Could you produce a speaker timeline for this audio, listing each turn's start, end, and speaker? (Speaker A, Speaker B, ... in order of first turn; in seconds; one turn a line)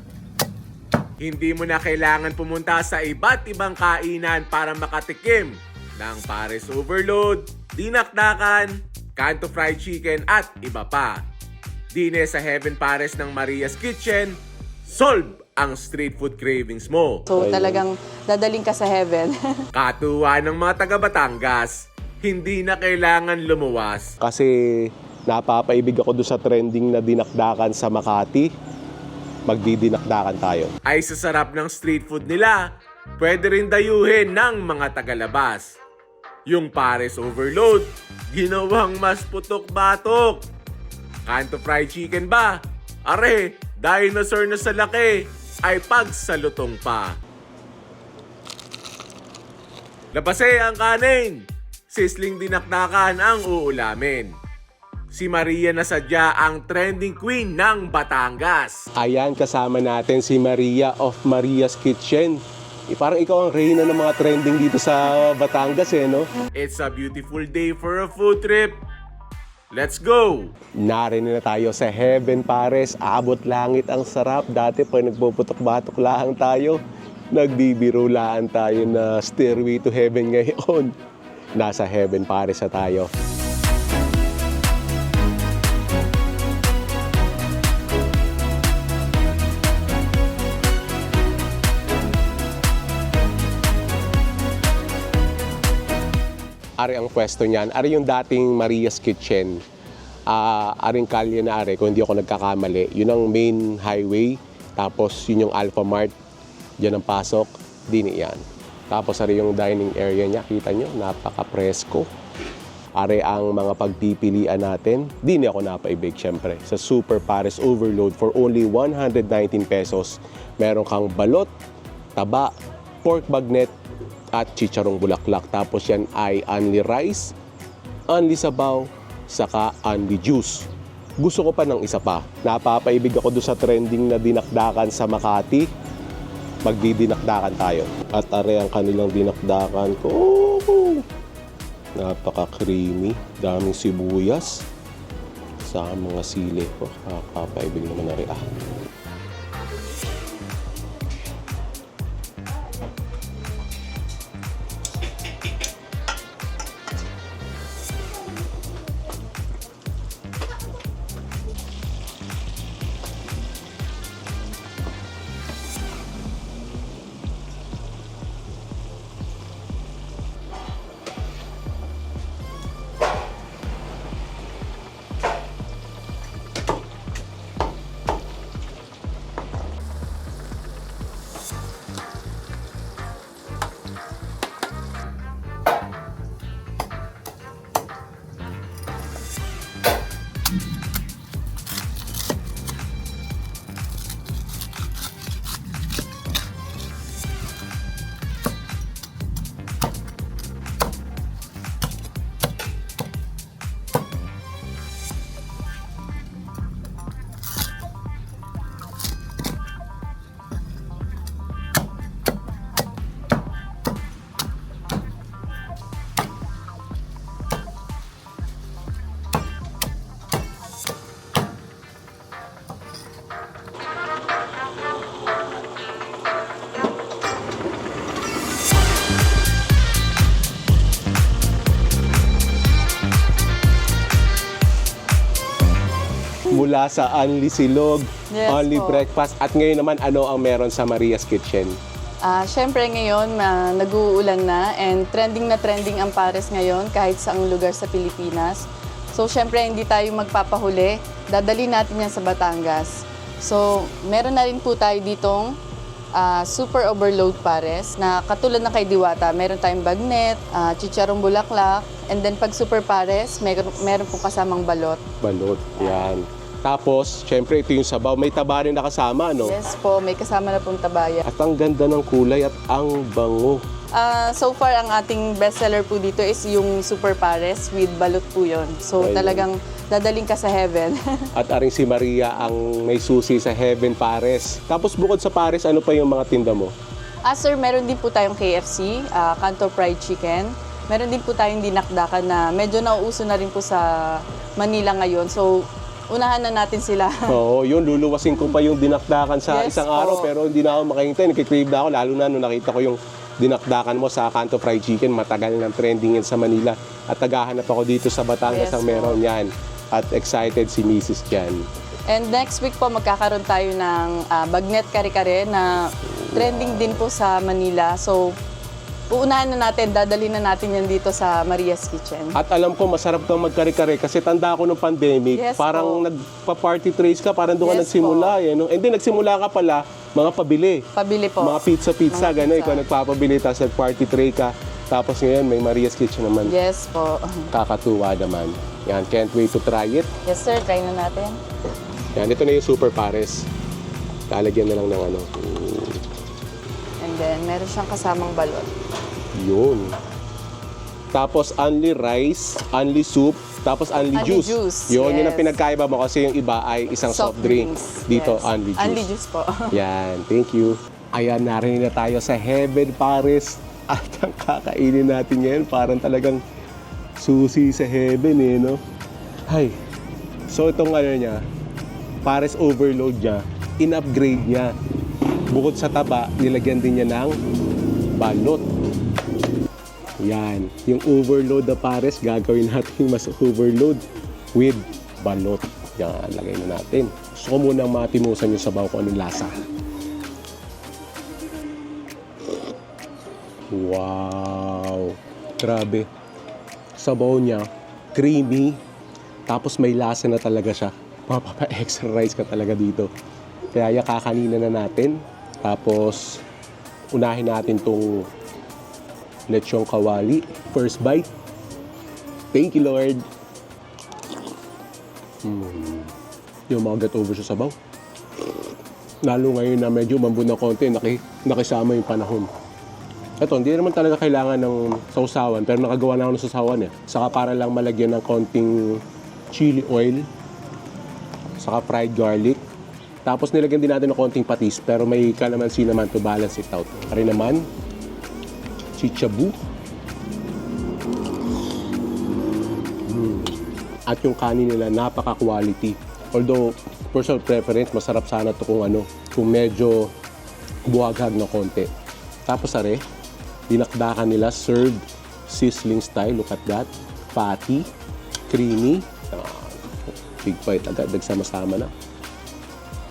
Speaker A: 1.2-11.2
Speaker A: 11.9-17.3
Speaker B: 17.3-19.6
Speaker C: 17.3-17.8
Speaker A: 19.7-24.2
Speaker C: 24.2-28.5
Speaker C: 29.5-30.8
Speaker A: 30.8-35.8
Speaker A: 36.5-40.4
Speaker A: 41.2-47.2
Speaker A: 50.1-54.4
Speaker A: 55.1-58.9
Speaker C: 59.0-66.3
Speaker A: 66.5-68.8
Speaker A: 69.7-70.5
Speaker C: 70.8-76.8
Speaker C: 77.3-80.9
Speaker C: 81.6-83.1
Speaker A: 81.7-82.5
Speaker C: 96.8-99.6
Speaker C: 100.3-106.1
Speaker C: 106.8-112.1
Speaker C: 113.0-121.5
Speaker C: 122.2-123.7
Speaker C: 124.3-127.3
Speaker C: 128.1-130.7
Speaker C: 131.2-135.7
Speaker C: 136.7-141.1
Speaker C: 141.9-144.6
Speaker C: 145.6-148.5
Speaker C: 236.5-237.8
Speaker A: 236.9-238.1
Speaker B: 238.3-239.1
Speaker C: 238.5-241.8
Speaker B: 242.2-255.6
Speaker B: 256.1-265.0
Speaker C: 265.2-269.6
Speaker B: 265.8-266.1
Speaker B: 269.4-271.2
Speaker C: 271.2-273.6
Speaker B: 273.9-281.3
Speaker C: 279.0-279.5
Speaker C: 281.3-286.7
Speaker B: 287.2-297.4
Speaker C: 297.3-311.6
Speaker B: 299.4-300.3
Speaker B: 308.4-309.2
Speaker B: 312.1-318.4
Speaker C: 316.2-317.0
Speaker B: 319.1-322.4
Speaker C: 322.3-330.8
Speaker B: 325.3-326.1
Speaker B: 327.6-328.4
Speaker B: 330.9-332.9
Speaker C: 331.4-336.5
Speaker B: 336.4-337.5
Speaker C: 337.5-340.1
Speaker B: 340.2-341.4
Speaker C: 342.1-343.5
Speaker C: 344.3-346.0
Speaker B: 347.0-348.7
Speaker C: 349.3-350.0
Speaker C: 351.1-359.1
Speaker B: 354.1-355.6
Speaker B: 357.0-359.8
Speaker C: 359.7-366.4
Speaker C: 367.1-368.8
Speaker C: 369.5-369.8
Speaker C: 370.5-371.4
Speaker C: 372.2-374.8
Speaker C: 375.5-377.4
Speaker C: 378.1-378.6
Speaker C: 380.2-384.0
Speaker C: 384.5-389.5
Speaker C: 393.7-396.1
Speaker C: 397.0-398.8
Speaker C: 399.5-403.1
Speaker C: 403.7-406.4
Speaker C: 407.1-408.3
Speaker C: 409.5-411.3
Speaker C: 412.5-413.2
Speaker C: 415.4-416.1
Speaker C: 416.7-417.7
Speaker C: 419.2-422.5
Speaker C: 423.4-430.3
Speaker C: 431.6-432.6
Speaker C: 433.2-437.7
Speaker C: 439.0-439.6
Speaker C: 443.1-450.1
Speaker C: 450.9-451.9
Speaker C: 452.5-453.0
Speaker C: 453.7-457.9
Speaker C: 458.5-461.9